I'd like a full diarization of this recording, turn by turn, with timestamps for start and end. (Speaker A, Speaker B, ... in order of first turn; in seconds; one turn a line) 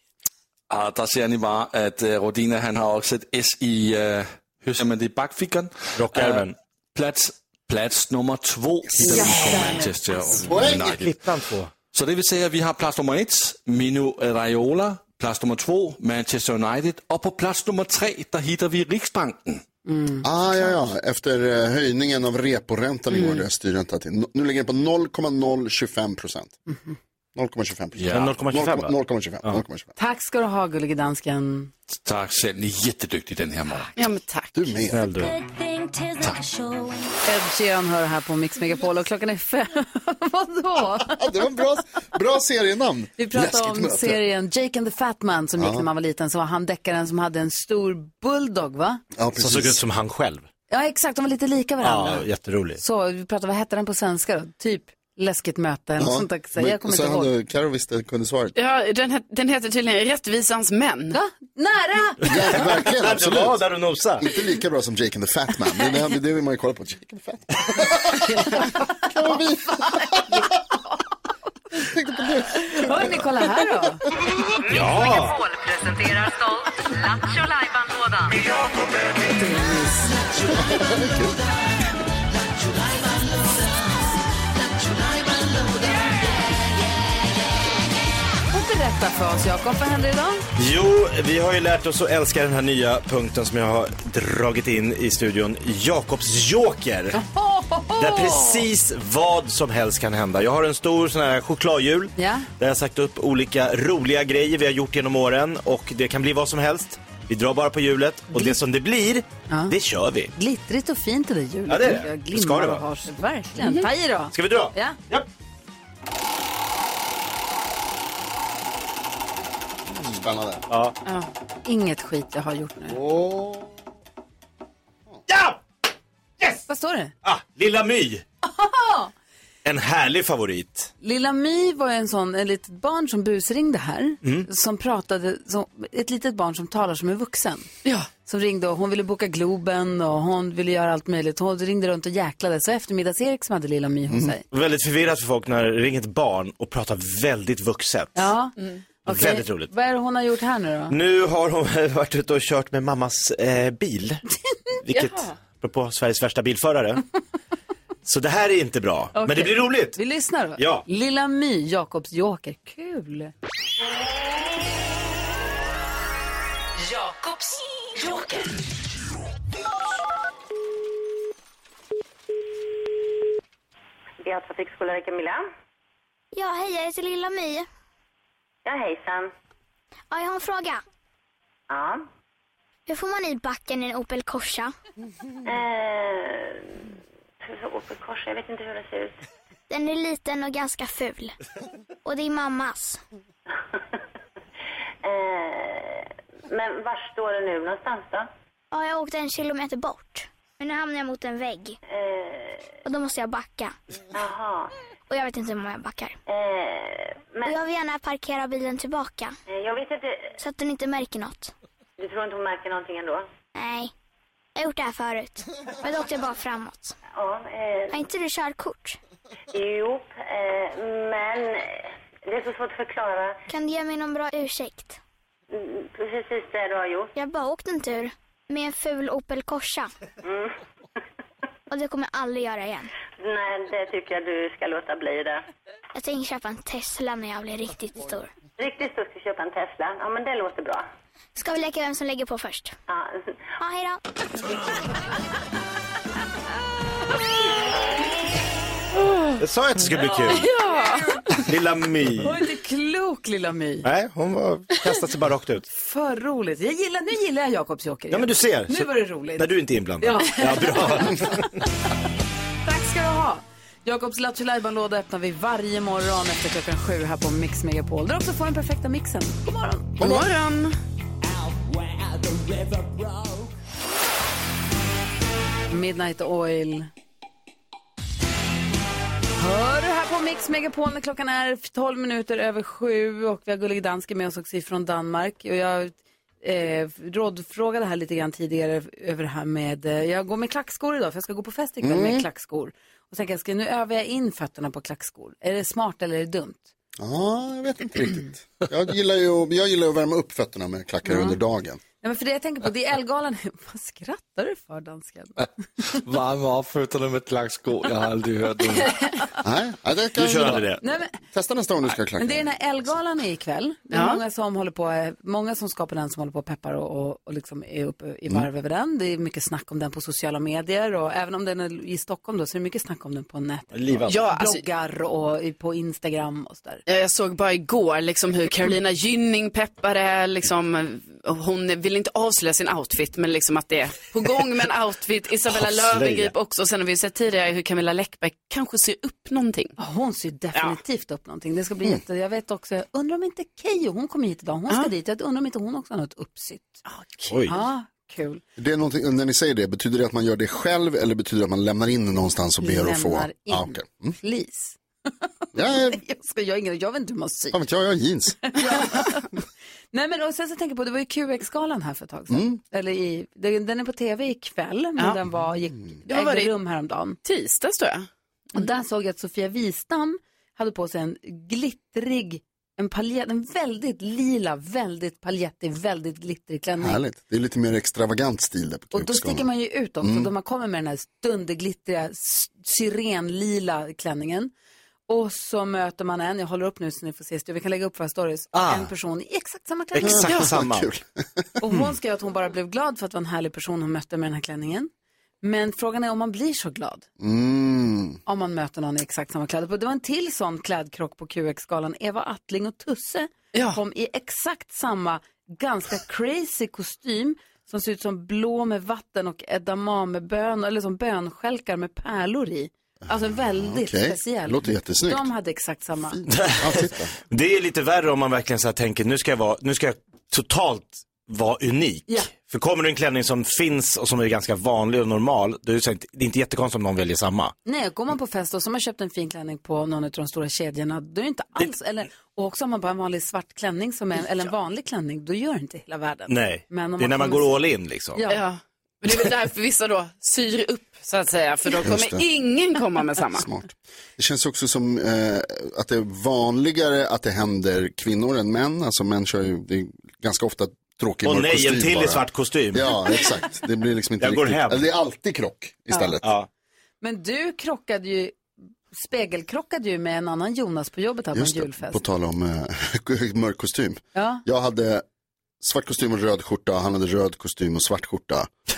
Speaker A: 0.7-11.3
Speaker B: 6.0-6.6
Speaker B: 9.0-9.8
Speaker C: 9.1-9.9
Speaker D: 10.3-11.0
Speaker B: 10.4-11.7
Speaker A: 11.9-19.6
Speaker C: 19.9-20.3
Speaker D: 20.2-26.6
Speaker E: 23.1-23.4
Speaker D: 27.4-29.9
Speaker A: 28.0-28.3
Speaker B: 28.1-28.9
Speaker C: 30.0-31.7
Speaker A: 32.0-33.9
Speaker E: 34.0-34.8
Speaker D: 34.5-35.2
Speaker B: 34.9-35.4
Speaker A: 36.1-36.6
Speaker C: 37.2-41.2
Speaker D: 41.1-44.2
Speaker C: 43.2-49.0
Speaker D: 45.6-45.9
Speaker D: 49.1-49.8
Speaker B: 49.4-50.5
Speaker C: 50.7-52.3
Speaker B: 51.8-52.8
Speaker C: 52.8-57.3
Speaker D: 56.0-58.5
Speaker E: 58.5-61.2
Speaker C: 61.1-62.2
Speaker D: 62.2-63.6
Speaker B: 62.2-64.2
Speaker D: 64.2-70.5
Speaker D: 71.7-73.3
Speaker C: 72.6-74.0
Speaker B: 74.6-75.4
Speaker C: 79.3-80.6
Speaker D: 80.5-81.4
Speaker C: 88.5-90.5
Speaker B: 90.6-97.2
Speaker C: 97.1-98.7
Speaker B: 98.0-110.3
Speaker C: 102.2-102.5
Speaker C: 110.3-115.0
Speaker B: 111.7-112.8
Speaker E: 113.6-113.9
Speaker B: 114.3-115.3
Speaker D: 119.9-120.7
Speaker B: 120.1-121.0
Speaker C: 121.7-123.0
Speaker D: 122.9-123.7
Speaker B: 125.3-125.6
Speaker C: 126.7-127.1
Speaker B: 127.2-128.2
Speaker C: 128.4-129.1
Speaker B: 129.7-130.9
Speaker C: 131.0-137.7
Speaker C: 138.2-144.4
Speaker B: 144.5-148.3
Speaker C: 148.2-150.9
Speaker B: 149.1-149.7
Speaker B: 150.9-154.2
Speaker B: 154.9-157.0
Speaker E: 154.9-155.3
Speaker B: 158.1-160.0
Speaker C: 159.2-163.3
Speaker B: 160.6-160.8
Speaker F: 174.2-175.4
Speaker G: 176.3-177.7
Speaker F: 178.7-179.3
Speaker G: 180.1-180.8
Speaker F: 181.7-182.1
Speaker G: 182.9-184.7
Speaker F: 185.4-186.8
Speaker F: 187.4-189.2
Speaker G: 189.7-191.4
Speaker G: 192.1-193.0
Speaker F: 195.0-198.3
Speaker G: 198.7-201.8
Speaker F: 201.9-202.8
Speaker G: 202.8-203.8
Speaker F: 204.1-204.7
Speaker G: 205.1-206.2
Speaker F: 206.3-207.6
Speaker G: 207.4-209.4
Speaker F: 209.5-210.4
Speaker G: 210.4-211.5
Speaker F: 212.0-213.3
Speaker G: 213.5-213.9
Speaker G: 214.6-217.0
Speaker F: 217.1-218.0
Speaker G: 217.9-219.0
Speaker F: 219.5-223.4
Speaker G: 223.5-225.0
Speaker F: 225.5-227.1
Speaker G: 227.2-229.9
Speaker F: 230.2-230.5
Speaker G: 231.7-232.9
Speaker F: 233.2-235.4
Speaker G: 235.9-238.3
Speaker F: 238.6-240.9
Speaker G: 241.3-242.8
Speaker F: 242.9-243.4
Speaker G: 243.6-244.0
Speaker E: 249.1-249.4
Speaker B: 249.4-250.5
Speaker E: 250.1-251.2
Speaker B: 251.4-252.4
Speaker C: 252.2-253.9
Speaker B: 253.8-255.7
Speaker C: 255.7-261.4
Speaker B: 258.1-261.6
Speaker C: 262.7-270.1
Speaker E: 270.0-270.8
Speaker C: 275.7-276.9
Speaker C: 279.4-296.7
Speaker D: 291.8-292.3
Speaker D: 297.0-301.8
Speaker C: 301.1-301.4
Speaker C: 302.0-305.4
Speaker A: 305.9-309.0
Speaker D: 309.4-310.7
Speaker B: 310.2-310.8
Speaker C: 310.8-311.2
Speaker D: 311.3-312.9
Speaker C: 312.2-326.8
Speaker E: 313.9-314.2
Speaker B: 323.7-324.3
Speaker E: 324.1-324.6
Speaker E: 326.9-339.7
Speaker B: 335.5-336.3
Speaker C: 339.8-346.8
Speaker E: 340.5-340.8
Speaker E: 346.9-347.3
Speaker B: 347.3-347.5
Speaker C: 347.5-348.4
Speaker D: 348.6-354.2
Speaker C: 352.6-354.8
Speaker D: 355.5-356.0
Speaker C: 355.7-357.6
Speaker D: 357.5-358.4
Speaker C: 358.5-359.3
Speaker C: 359.9-367.2
Speaker D: 362.3-362.6
Speaker E: 366.1-366.5
Speaker E: 367.2-368.1
Speaker C: 368.6-377.0
Speaker D: 376.8-379.5
Speaker C: 378.9-384.5
Speaker D: 380.0-380.3
Speaker C: 385.1-390.4
Speaker B: 388.5-388.9
Speaker B: 389.9-390.9
Speaker D: 390.0-391.5
Speaker C: 391.6-394.9
Speaker C: 395.4-397.1
Speaker D: 397.2-398.2
Speaker C: 398.3-416.2
Speaker E: 403.5-403.8
Speaker D: 413.1-415.3
Speaker D: 416.1-417.1
Speaker B: 416.3-427.5
Speaker C: 427.6-437.6
Speaker B: 436.3-438.2
Speaker C: 438.2-438.4
Speaker E: 438.3-443.5
Speaker D: 441.8-442.2
Speaker D: 443.4-456.4
Speaker B: 451.2-453.0
Speaker B: 454.2-454.8
Speaker B: 456.2-456.5
Speaker C: 457.0-458.4
Speaker C: 458.9-462.0
Speaker D: 461.3-465.1
Speaker C: 464.1-464.4
Speaker D: 465.6-468.5